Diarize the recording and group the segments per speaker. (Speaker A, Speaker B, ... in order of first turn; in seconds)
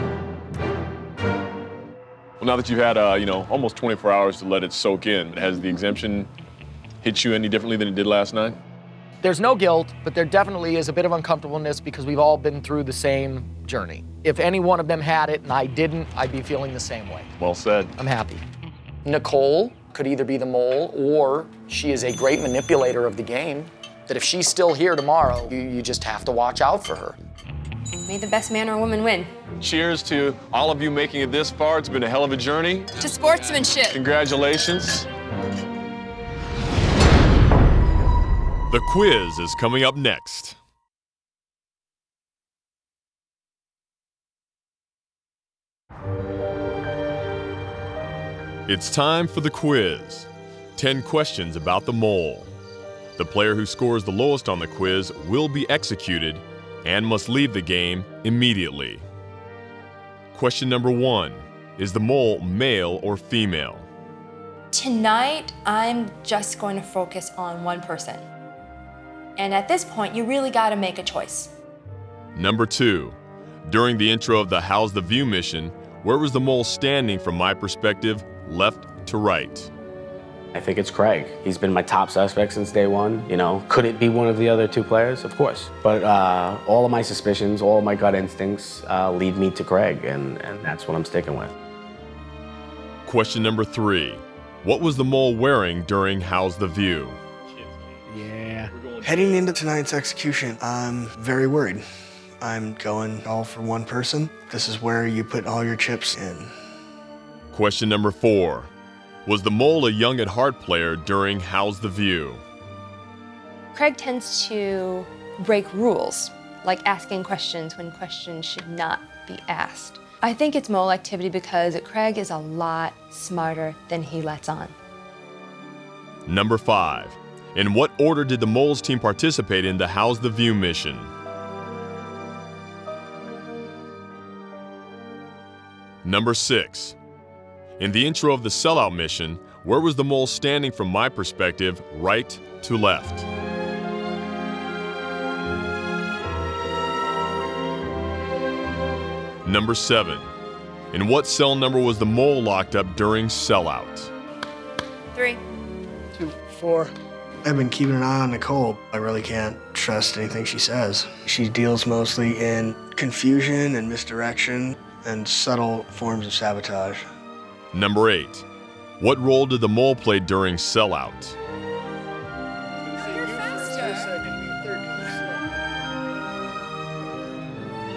Speaker A: 2.4-6.3, 7.0-8.6, 17.4-17.9, 29.6-32.9, 33.9-35.1, 98.8-99.4
Speaker B: 9.2-17.3, 18.0-18.4, 19.0-27.2
Speaker C: 28.0-29.3, 33.0-34.0, 64.7-68.2, 69.4-71.5, 113.7-124.7, 155.1-155.4, 173.0-174.1
Speaker D: 38.7-40.6, 48.7-52.5, 53.1-59.0, 60.3-63.9, 72.3-79.7, 93.0-97.2, 107.5-108.7, 109.2-112.4, 126.2-131.1, 136.0-137.0, 137.8-143.3, 149.4-150.3, 150.9-154.1, 167.7-168.4, 169.0-171.4
Speaker E: 80.5-91.5, 98.1-98.7
Speaker F: 99.0-101.8, 102.4-106.5, 156.5-156.9, 157.4-167.0, 172.9-175.4